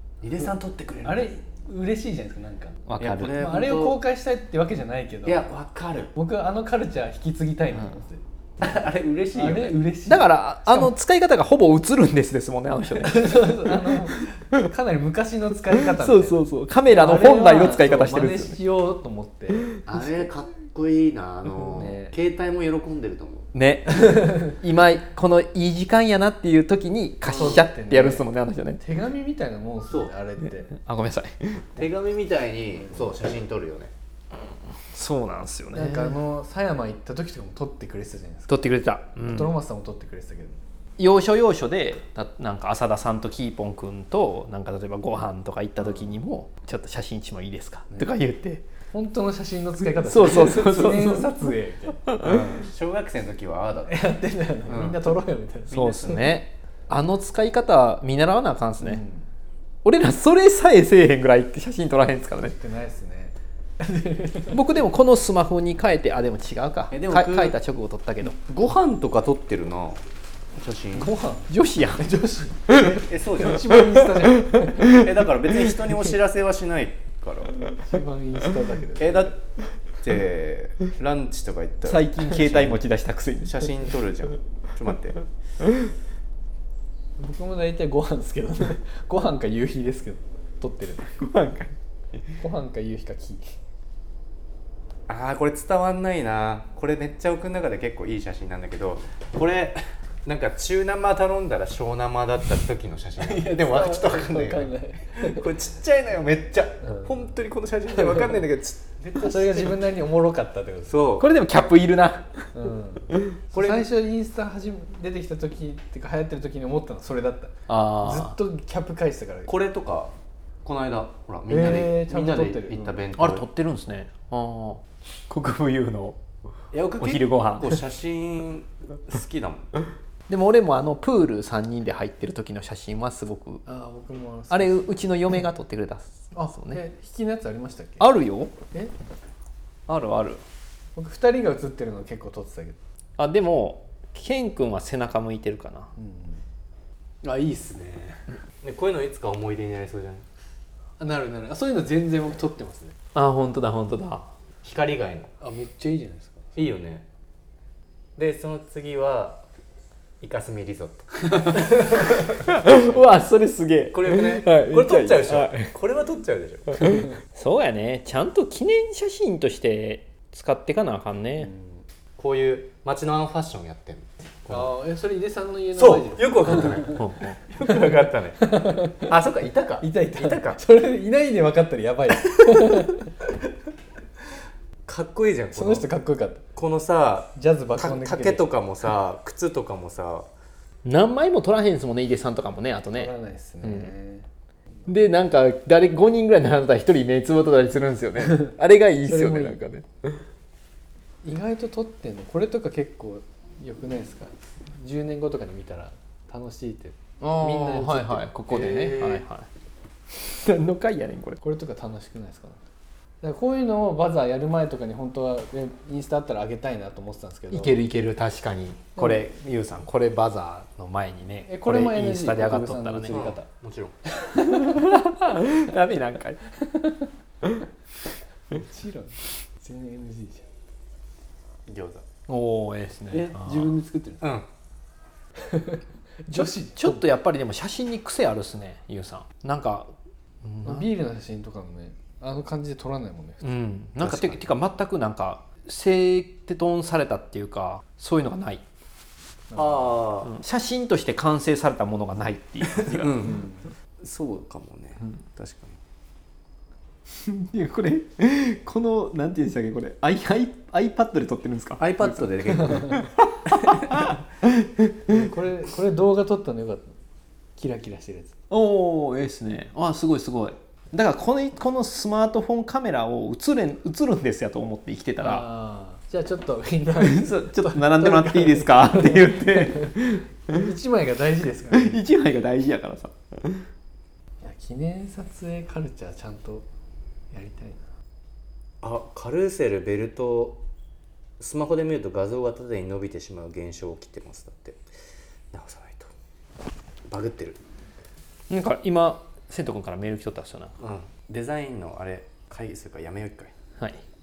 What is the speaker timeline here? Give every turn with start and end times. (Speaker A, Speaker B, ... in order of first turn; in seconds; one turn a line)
Speaker A: 0.2-1.3
Speaker B: 1.0-2.8
Speaker C: 2.9-3.4
Speaker A: 3.0-4.0
Speaker B: 3.3-5.5
Speaker A: 5.2-6.1
Speaker B: 6.1-8.2
Speaker A: 8.6-9.8
Speaker B: 9.3-10.9
Speaker C: 10.1-14.0
Speaker B: 13.0-20.3
Speaker C: 15.8-18.6
Speaker A: 19.9-23.5
Speaker B: 21.7-22.1
Speaker C: 23.5-28.8
Speaker B: 24.1-24.5
Speaker B: 27.2-28.3
Speaker A: 27.3-27.6
Speaker B: 28.8-30.7
Speaker C: 30.7-31.8
Speaker A: 31.8-33.9
Speaker C: 34.9-36.2
Speaker B: 35.7-38.6
Speaker C: 38.5-39.5
Speaker B: 39.2-40.6
Speaker C: 41.0-48.6
Speaker B: 48.9-52.1
Speaker C: 50.0-51.4
Speaker C: 52.1-52.5
Speaker A: 52.2-55.1
Speaker B: 53.9-56.3
Speaker A: 55.7-56.3
Speaker C: 55.7-59.0
Speaker B: 58.8-59.3
Speaker C: 59.8-62.5
Speaker B: 62.4-64.6
Speaker C: 64.5-68.4
Speaker A: 66.9-67.5
Speaker A: 68.3-70.0
Speaker A: 70.5-71.1
Speaker B: 71.0-75.0
Speaker C: 71.5-72.1
Speaker C: 72.7-73.0
Speaker A: 73.1-73.6
Speaker C: 73.6-75.1
Speaker A: 74.8-77.5
Speaker B: 77.8-79.3
Speaker A: 79.0-79.3
Speaker A: 80.0-82.8
Speaker C: 81.8-83.7
Speaker A: 83.4-85.2
Speaker C: 85.6-85.9
Speaker B: 87.2-91.2
Speaker C: 91.2-91.7
Speaker B: 92.4-93.5
Speaker A: 95.1-109.8
Speaker B: 103.2-105.5
Speaker B: 109.1-111.0
Speaker A: 110.9-111.3
Speaker C: 111.2-112.5
Speaker B: 112.5-119.5
Speaker C: 113.1-113.4
Speaker A: 113.5-113.9
Speaker C: 117.7-118.3
Speaker A: 119.5-120.1
Speaker A: 120.6-123.4
Speaker B: 121.5-123.0
Speaker C: 123.2-126.2
Speaker A: 126.7-129.8
Speaker C: 127.0-127.8
Speaker C: 130.3-133.6
Speaker B: 133.7-135.0
Speaker C: 134.5-136.8
Speaker B: 136.3-138.1
Speaker C: 138.0-138.5
Speaker C: 139.9-140.4
Speaker B: 140.9-142.8
Speaker C: 143.2-145.9
Speaker B: 145.9-146.4
Speaker B: 147.2-148.3
Speaker A: 148.6-150.2
Speaker B: 151.0-152.9
Speaker C: 153.1-154.3
Speaker A: 154.6-155.3
Speaker B: 155.4-156.5
Speaker A: 156.6-157.0
Speaker A: 158.2-159.4
Speaker A: 160.2-163.0
Speaker C: 162.4-165.7
Speaker A: 163.9-166.9
Speaker C: 166.8-171.5
Speaker B: 171.4-171.8
Speaker A: 172.2-174.7
Speaker B: 174.5-177.0
Speaker A: 175.8-180.6
Speaker C: 176.9-177.4
Speaker B: 178.4-179.1
Speaker B: 179.8-183.1
Speaker A: 184.9-185.9
Speaker B: 185.5-186.4
Speaker A: 186.5-190.3
Speaker B: 187.3-188.5
Speaker C: 190.8-193.1
Speaker B: 192.9-194.3
Speaker C: 193.6-193.9
Speaker C: 194.9-200.2
Speaker B: 199.0-199.6
Speaker B: 201.2-209.1
Speaker C: 207.2-209.5
Speaker A: 208.5-209.2
Speaker C: 210.1-211.4
Speaker B: 211.4-212.6
Speaker B: 213.2-217.8
Speaker C: 217.5-223.2
Speaker B: 221.5-223.5
Speaker A: 223.1-223.9
Speaker B: 224.1-224.9
Speaker C: 224.4-226.4
Speaker B: 226.7-227.0
Speaker B: 228.5-230.4
Speaker A: 231.7-232.0
Speaker C: 232.3-233.7
Speaker B: 233.1-234.3
Speaker B: 235.4-237.0
Speaker C: 236.3-239.9
Speaker C: 240.4-240.9
Speaker B: 240.6-243.6
Speaker C: 243.4-248.6
Speaker A: 244.0-244.4
Speaker B: 249.5-249.9
Speaker A: 249.5-250.3
Speaker C: 250.2-253.3
Speaker A: 252.7-253.5
Speaker B: 253.3-253.6
Speaker A: 254.0-255.8
Speaker C: 257.2-265.2
Speaker A: 261.8-264.1
Speaker B: 265.1-267.0
Speaker B: 267.6-268.4
Speaker C: 268.5-275.4
Speaker B: 275.2-279.9
Speaker C: 277.0-280.6
Speaker B: 280.5-282.0
Speaker C: 281.7-283.7
Speaker B: 284.4-286.7
Speaker B: 287.3-287.9
Speaker A: 288.8-290.6
Speaker A: 291.4-294.8
Speaker A: 295.5-296.1
Speaker A: 297.1-297.6
Speaker C: 298.5-300.7
Speaker A: 300.8-303.5